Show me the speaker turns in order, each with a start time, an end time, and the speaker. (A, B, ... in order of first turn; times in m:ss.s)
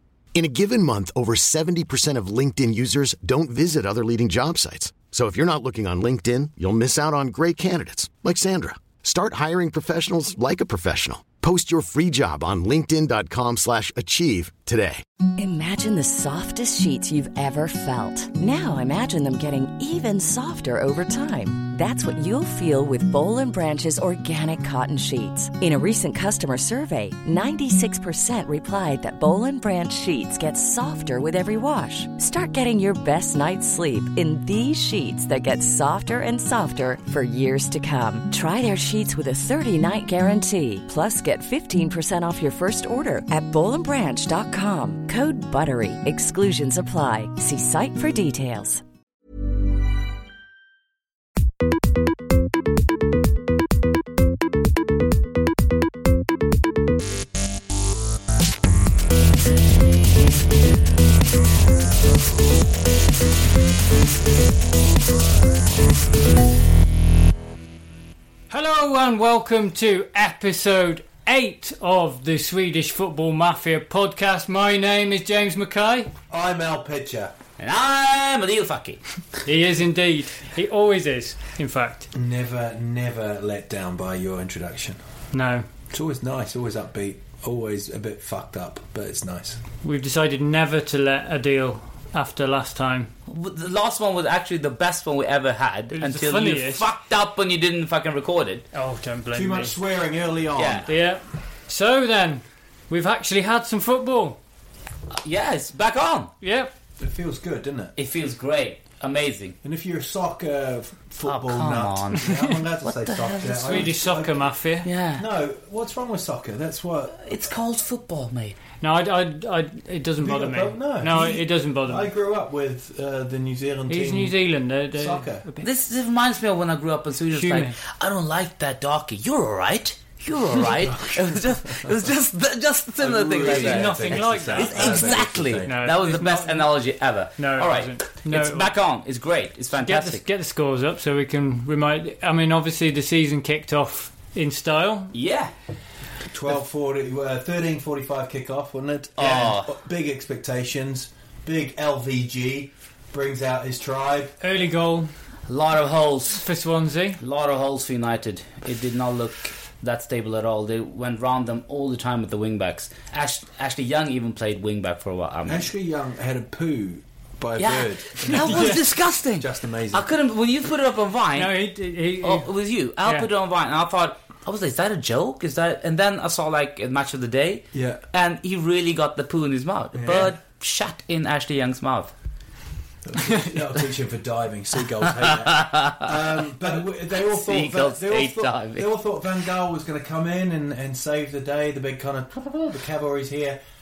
0:00.3-0:15.0 A
0:15.4-0:48.8 B
1:08.5-1:16.1 C
1:16.3-1:17.3 D
1:17.6-1:19.0 E
1:19.4-1:22.1 C
1:22.1-1:25.0 D
1:25.3-1:25.7 C
1:25.9-1:29.6 D
1:29.8-1:33.1 C
1:33.3-1:38.6 E
1:35.9-1:36.9 C
1:38.7-1:39.8 C
1:39.3-1:40.9 D
1:40.6-1:40.9 E
1:40.9-1:44.4 C
1:45.2-1:46.3 E
1:46.4-1:46.7 C
1:47.0-1:48.0 D
1:48.0-1:49.6 E
1:49.6-1:54.5 D
1:51.2-1:53.9 E
1:53.6-1:54.9 C
1:54.8-1:55.2 E
1:55.2-1:57.2 D
1:57.2-1:58.6 E
1:58.8-2:02.1 C
2:00.2-2:04.4 D
2:03.9-2:05.7 C
2:04.9-2:05.5 D
2:05.6-2:20.2 E
2:07.3-2:07.8 C
2:10.6-2:12.0 D
2:13.0-2:15.8 D
2:13.4-2:16.7 C
2:17.4-2:18.7 C
2:19.8-2:25.1 C
2:25.1-2:25.5 E
2:26.3-2:34.4 D
2:29.2-2:29.7 E
2:34.4-2:35.1 C
2:35.5-2:36.5 E
2:36.4-2:37.2 C
2:37.2-2:45.7 E
2:45.5-2:50.1 D
2:47.6-2:51.6 E
2:48.3-2:48.8 C
2:51.4-2:52.5 C
2:52.2-3:02.1 E
2:57.7-2:58.0 D
2:59.9-3:00.4 D
3:03.1-3:13.6 D
3:05.2-3:06.1 E
3:06.7-3:08.9 E